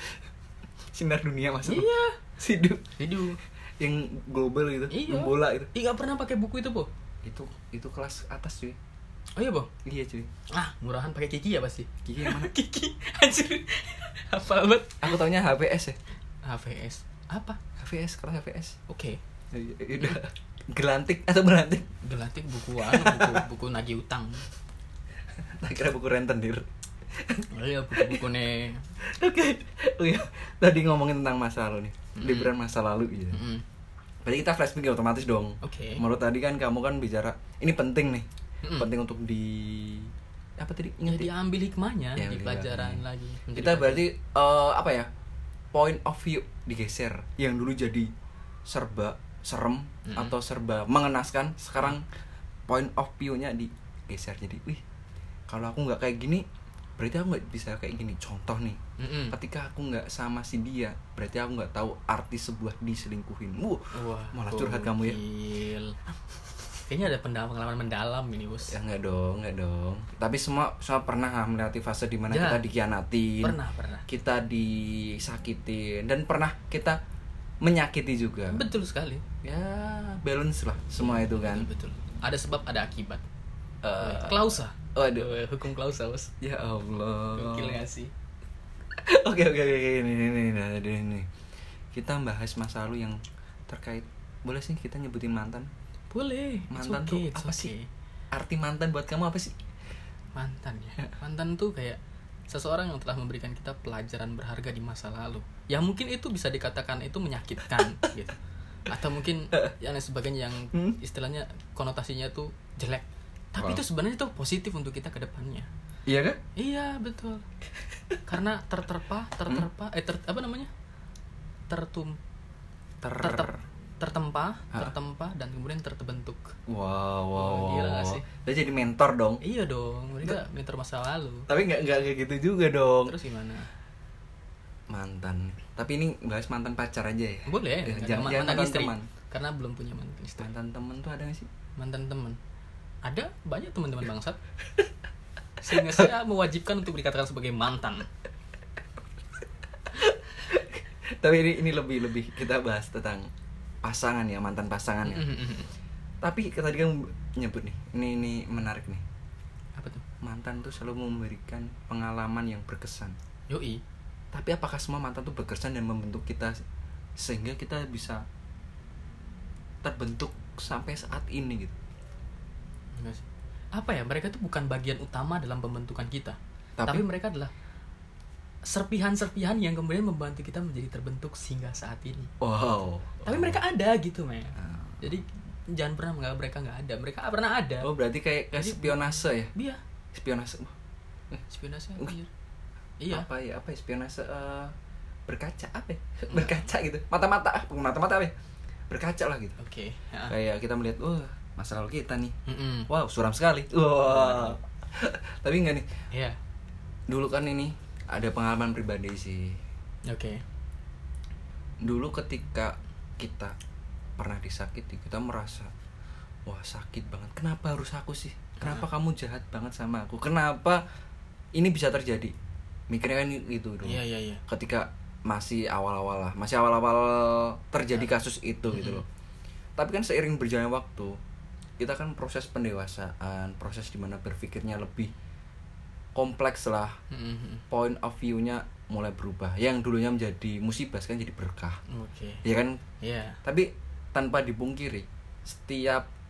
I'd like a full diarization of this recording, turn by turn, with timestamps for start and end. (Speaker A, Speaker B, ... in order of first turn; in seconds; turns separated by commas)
Speaker A: 0.9-1.9, Speaker B: 1.6-2.2, Speaker A: 2.4-2.9, Speaker B: 3.0-3.4, Speaker A: 3.8-5.7, Speaker B: 4.9-6.9, Speaker A: 7.2-8.8, Speaker B: 9.4-9.7, Speaker A: 9.8-10.3, Speaker B: 10.5-15.2, Speaker A: 12.0-12.5, Speaker A: 15.0-16.0, Speaker B: 16.4-17.6, Speaker A: 17.8-18.8, Speaker B: 18.9-19.2, Speaker A: 19.5-21.9, Speaker B: 22.0-24.4, Speaker A: 22.8-23.4, Speaker A: 25.4-26.6, Speaker A: 27.2-28.2, Speaker B: 27.5-28.8, Speaker A: 29.0-33.4, Speaker B: 32.1-32.5, Speaker B: 33.3-33.6, Speaker A: 34.2-41.3, Speaker B: 35.6-36.0, Speaker B: 41.0-44.0, Speaker A: 42.2-43.0, Speaker A: 43.5-45.1, Speaker A: 45.7-48.1, Speaker A: 48.7-52.0, Speaker B: 50.1-50.4, Speaker A: 52.7-54.8, Speaker A: 55.5-56.4, Speaker A: 57.0-58.8, Speaker B: 59.0-59.4, Speaker A: 59.3-65.2, Speaker B: 63.9-66.0, Speaker B: 66.8-68.7, Speaker A: 68.7-73.6, Speaker B: 72.3-72.6, Speaker B: 73.4-74.0, Speaker A: 74.1-77.0, Speaker A: 77.6-78.7, Speaker B: 78.5-79.2, Speaker A: 79.4-81.7, Speaker B: 81.0-83.2, Speaker A: 83.8-85.4, Speaker B: 84.0-86.3, Speaker A: 86.4-87.8, Speaker B: 87.3-88.1, Speaker A: 89.0-91.3, Speaker A: 91.9-95.7, Speaker B: 96.1-97.9, Speaker A: 96.7-97.7, Speaker A: 98.3-99.5, Speaker B: 100.3-108.3, Speaker B: 108.9-115.7, Speaker A: 110.7-111.0, Speaker A: 116.1-116.4, Speaker B: 116.6-117.4, Speaker B: 118.3-120.7, Speaker B: 121.7-122.2, Speaker A: 123.0-123.6, Speaker B: 123.2-126.5, Speaker A: 126.7-129.4, Speaker B: 127.3-128.2, Speaker B: 129.4-131.5, Speaker A: 131.5-133.1, Speaker B: 133.1-133.7, Speaker A: 134.9-139.1, Speaker B: 137.4-140.5, Speaker A: 140.4-141.5, Speaker B: 141.8-142.4, Speaker B: 143.0-144.4, Speaker B: 145.6-148.1, Speaker A: 145.7-146.1, Speaker A: 149.9-153.3, Speaker A: 153.8-155.3, Speaker B: 155.1-155.7, Speaker A: 156.2-159.0, Speaker B: 159.8-160.0, Speaker A: 160.2-163.2, Speaker B: 163.5-163.8, Speaker A: 164.3-166.5, Speaker A: 167.2-168.2, Speaker A: 169.8-171.8, Speaker B: 172.9-173.2, Speaker B: 173.8-177.5, Speaker A: 176.8-177.0, Speaker B: 178.6-182.3, Speaker A: 182.4-183.6, Speaker B: 183.2-187.9, Speaker A: 184.6-185.1, Speaker A: 187.8-189.5, Speaker B: 188.6-189.8, Speaker A: 190.1-190.7, Speaker B: 191.5-192.3, Speaker B: 193.0-193.2, Speaker A: 193.1-194.7, Speaker A: 195.3-198.3, Speaker B: 196.3-196.7, Speaker A: 198.9-199.6, Speaker B: 199.6-200.3, Speaker A: 200.3-202.3, Speaker B: 202.4-202.9, Speaker A: 202.9-205.8, Speaker B: 204.1-204.6, Speaker B: 206.1-206.4, Speaker A: 207.1-209.6, Speaker B: 210.1-210.4, Speaker A: 211.8-213.5, Speaker A: 214.2-215.7, Speaker A: 216.5-220.8, Speaker B: 218.6-218.8, Speaker A: 221.5-222.3, Speaker A: 222.9-229.0, Speaker B: 223.8-224.4, Speaker B: 228.7-229.0, Speaker A: 229.8-231.1, Speaker A: 231.8-235.1, Speaker A: 236.2-237.0, Speaker B: 237.1-237.6, Speaker A: 237.7-241.8, Speaker B: 241.9-242.4, Speaker A: 242.4-242.8, Speaker B: 243.0-243.4, Speaker A: 243.4-246.1